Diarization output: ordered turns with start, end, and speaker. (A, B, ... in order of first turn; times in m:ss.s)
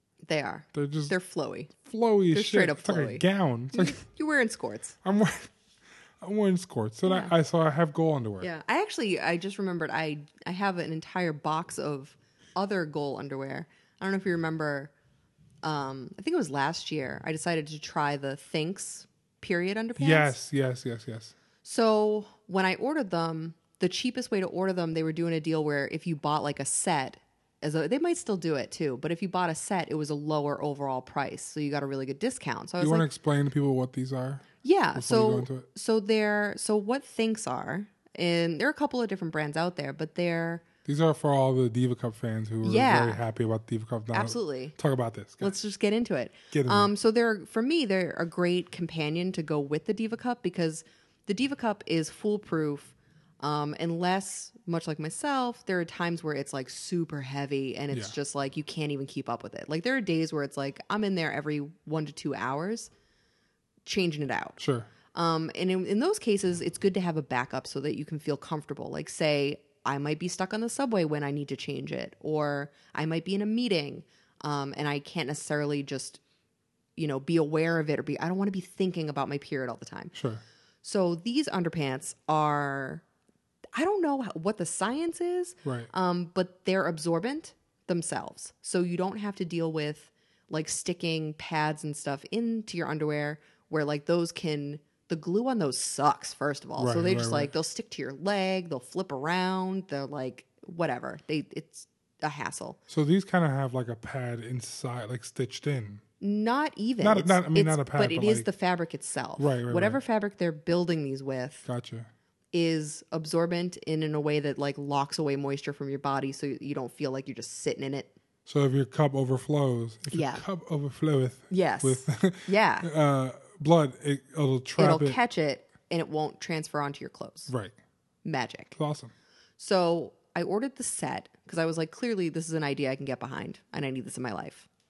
0:00.3-0:01.7 A
0:00.7-0:01.1 B
0:01.7-0:04.0 B
0:02.3-0:05.0 A
0:05.0-0:05.5 B
0:06.2-0:08.5 B
0:07.1-0:07.3 A
0:08.4-0:14.9 A
0:15.6-0:20.4 A
0:20.0-0:21.3 B
0:21.6-0:33.1 A
0:32.8-0:35.7 B
0:34.6-0:40.6 A
0:40.8-0:45.6 B
0:42.6-0:43.2 A
0:44.1-0:44.8 A
0:45.4-1:02.9 A
0:46.5-0:46.9 B
1:03.8-1:04.6 A
1:04.6-1:04.9 B
1:05.1-1:16.2 A
1:17.0-1:20.1 A
1:20.1-1:20.4 B
1:20.8-1:23.0 A
1:23.8-1:42.8 A
1:25.6-1:25.9 B
1:36.8-1:37.5 B
1:42.9-1:46.0 B
1:46.2-1:51.7 A
1:47.0-1:48.5 B
1:49.4-1:50.0 B
1:51.7-1:52.1 B
1:52.5-1:58.1 A
1:58.5-2:05.2 B
2:00.1-2:00.4 A
2:01.5-2:02.9 A
2:04.8-2:07.5 A
2:07.5-2:07.7 B
2:08.2-2:08.8 A
2:08.8-2:09.1 B
2:09.6-2:14.7 A